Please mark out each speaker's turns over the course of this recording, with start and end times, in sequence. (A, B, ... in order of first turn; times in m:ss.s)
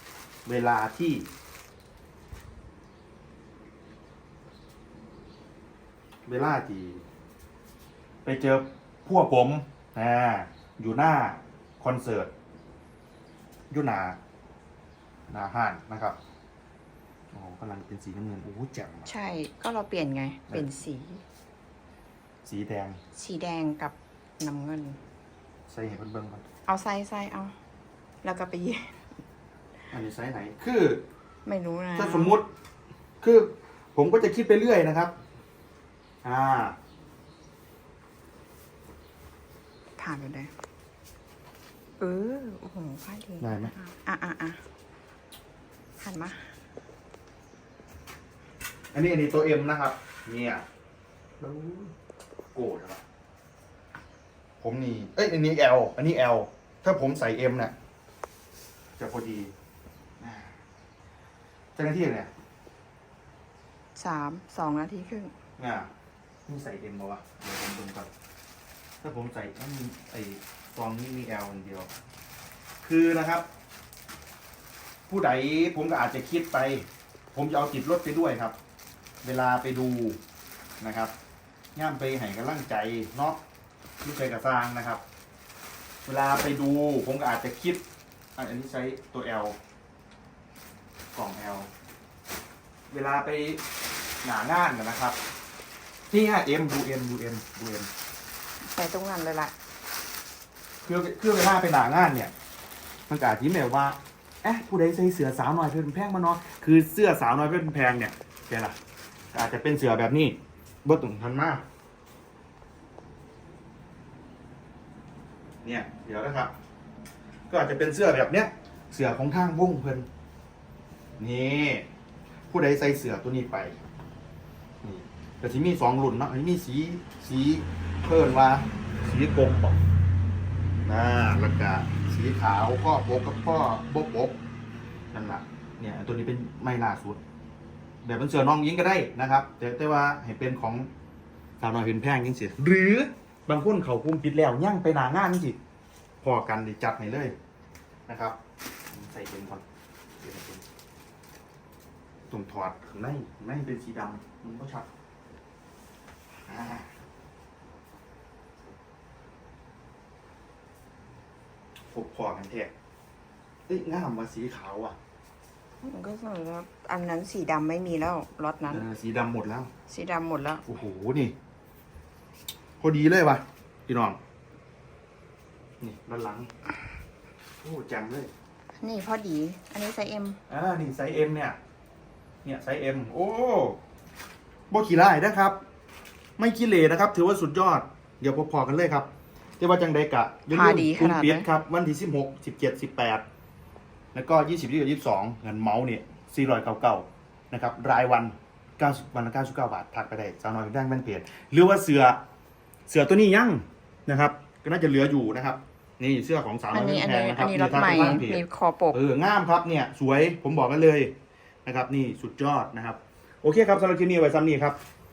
0:00.4-0:01.3 A
0:06.3-0:07.0 A
0:08.2-0:12.3 A
0:13.7-0:14.2 A
0:15.3-0:16.2 A
0:17.3-0:19.1 A
0:19.1-0:21.2 B
0:22.4-0:23.0 A
0:23.1-0:25.0 B
0:25.7-0:26.4 A
0:26.7-0:27.6 B
0:28.2-0:29.1 B
0:29.9-0:31.0 A
0:31.5-0:32.4 B
0:32.0-0:32.5 A
0:33.2-0:35.1 A
0:36.2-0:36.8 A
0:40.0-0:40.5 B
0:42.0-0:44.6 B
0:43.4-0:43.7 A
0:46.0-0:46.5 B
0:48.9-0:50.6 A
0:51.4-0:51.9 A
0:52.5-0:53.0 A
0:54.6-0:57.7 A
0:59.0-0:59.5 A
1:00.2-1:00.6 A
1:01.8-1:02.3 A
1:04.0-1:05.3 B
1:05.6-1:05.9 A
1:06.5-1:08.1 A
1:09.0-1:11.9 A
1:12.8-1:13.5 A
1:15.1-1:18.6 A
1:19.2-1:20.2 A
1:20.8-1:21.1 A
1:21.8-1:23.4 A
1:24.0-1:25.0 A
1:26.0-1:27.8 A
1:28.4-1:29.6 A
1:31.1-1:31.7 A
1:32.9-1:33.6 A
1:34.2-1:35.2 A
1:36.1-1:37.9 A
1:38.6-1:39.5 B
1:40.8-1:42.3 A
1:43.1-1:48.8 A
1:49.3-1:51.6 A
1:55.6-1:56.5 A
1:57.5-2:00.1 A
2:01.2-2:01.9 A
2:02.5-2:03.8 A
2:04.8-2:09.8 A
2:10.8-2:14.4 A
2:15.1-2:17.2 A
2:18.0-2:20.9 A
2:21.6-2:25.6 A
2:26.2-2:27.4 A
2:28.1-2:28.4 A
2:28.9-2:29.6 A
2:30.2-2:30.6 A
2:32.3-2:34.9 A
2:36.5-2:36.9 A
2:41.9-2:42.7 A
2:43.7-2:45.0 A
2:45.8-2:48.8 B
2:48.7-2:49.7 A
2:49.9-2:50.6 B
2:50.7-2:51.4 A
2:52.8-2:54.2 A
2:55.8-2:56.5 A
2:57.6-2:58.3 A
2:58.8-3:00.4 B
3:00.5-3:01.6 A
3:02.4-3:03.8 A
3:04.7-3:05.6 A
3:06.4-3:13.2 A
3:10.5-3:11.5 B
3:14.1-3:22.2 A
3:22.9-3:28.4 A
3:26.7-3:29.0 B
3:28.9-3:31.1 A
3:31.6-3:34.8 A